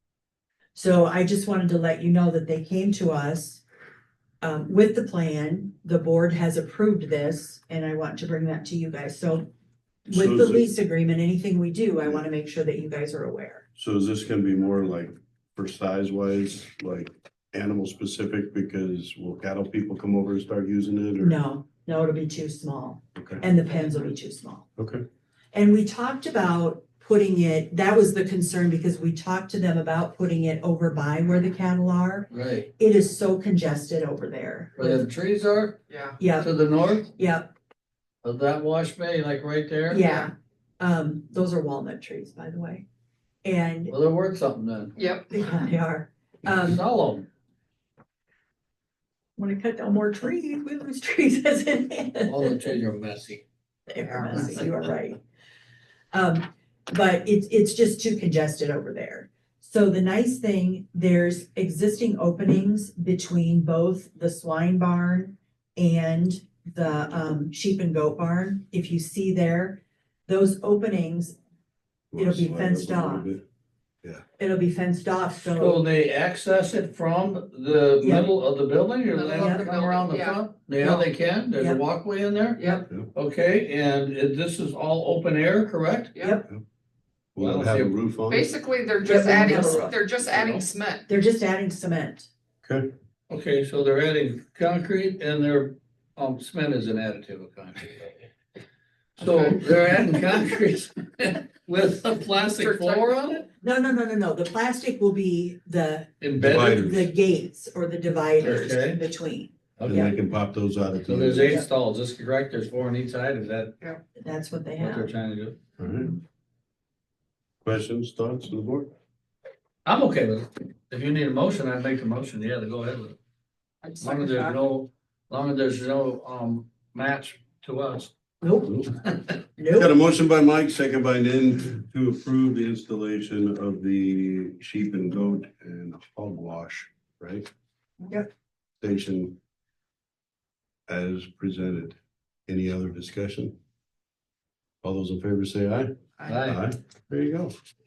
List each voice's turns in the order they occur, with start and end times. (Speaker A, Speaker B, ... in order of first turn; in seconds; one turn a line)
Speaker A: 0.7-3.6
Speaker A: 4.4-9.5
Speaker A: 10.1-13.6
Speaker B: 10.1-10.6
Speaker B: 13.8-21.3
Speaker A: 21.2-24.6
Speaker B: 23.1-23.4
Speaker B: 24.8-25.0
Speaker A: 25.5-35.1
Speaker C: 32.3-32.7
Speaker C: 34.8-35.8
Speaker D: 35.9-36.2
Speaker A: 36.2-36.5
Speaker C: 36.4-37.1
Speaker A: 37.0-37.5
Speaker C: 38.2-40.0
Speaker A: 39.9-42.8
Speaker D: 40.0-40.3
Speaker A: 43.4-43.9
Speaker C: 43.9-44.9
Speaker D: 45.0-45.3
Speaker A: 45.3-46.8
Speaker C: 46.6-47.3
Speaker A: 49.4-52.5
Speaker C: 52.2-53.4
Speaker A: 53.9-55.2
Speaker A: 56.1-71.4
Speaker B: 72.1-73.4
Speaker A: 72.2-73.3
Speaker A: 74.4-75.8
Speaker C: 75.5-86.1
Speaker A: 78.0-78.3
Speaker D: 79.0-80.4
Speaker A: 79.4-79.7
Speaker A: 80.8-81.8
Speaker D: 82.6-82.9
Speaker D: 86.1-86.4
Speaker A: 86.2-86.5
Speaker B: 87.3-88.5
Speaker C: 87.4-87.9
Speaker D: 88.3-91.1
Speaker A: 89.0-89.9
Speaker A: 91.1-92.3
Speaker B: 92.6-92.9
Speaker C: 93.3-98.2
Speaker C: 99.2-103.5
Speaker D: 102.3-103.3
Speaker A: 103.6-110.1
Speaker C: 106.2-106.9
Speaker B: 106.4-107.1
Speaker C: 108.4-109.0
Speaker C: 109.8-110.1
Speaker B: 109.8-111.6
Speaker C: 111.0-113.7
Speaker A: 114.2-115.1
Speaker C: 114.8-115.6
Speaker B: 115.8-116.2
Speaker B: 117.6-118.9
Speaker C: 119.8-123.2
Speaker D: 123.8-124.6
Speaker C: 124.0-128.1
Speaker A: 128.4-128.8
Speaker A: 129.6-129.9
Speaker B: 129.7-137.5
Speaker B: 138.8-139.3
Speaker B: 140.9-141.9
Speaker B: 142.5-143.5
Speaker B: 144.8-147.5
Speaker C: 146.2-146.6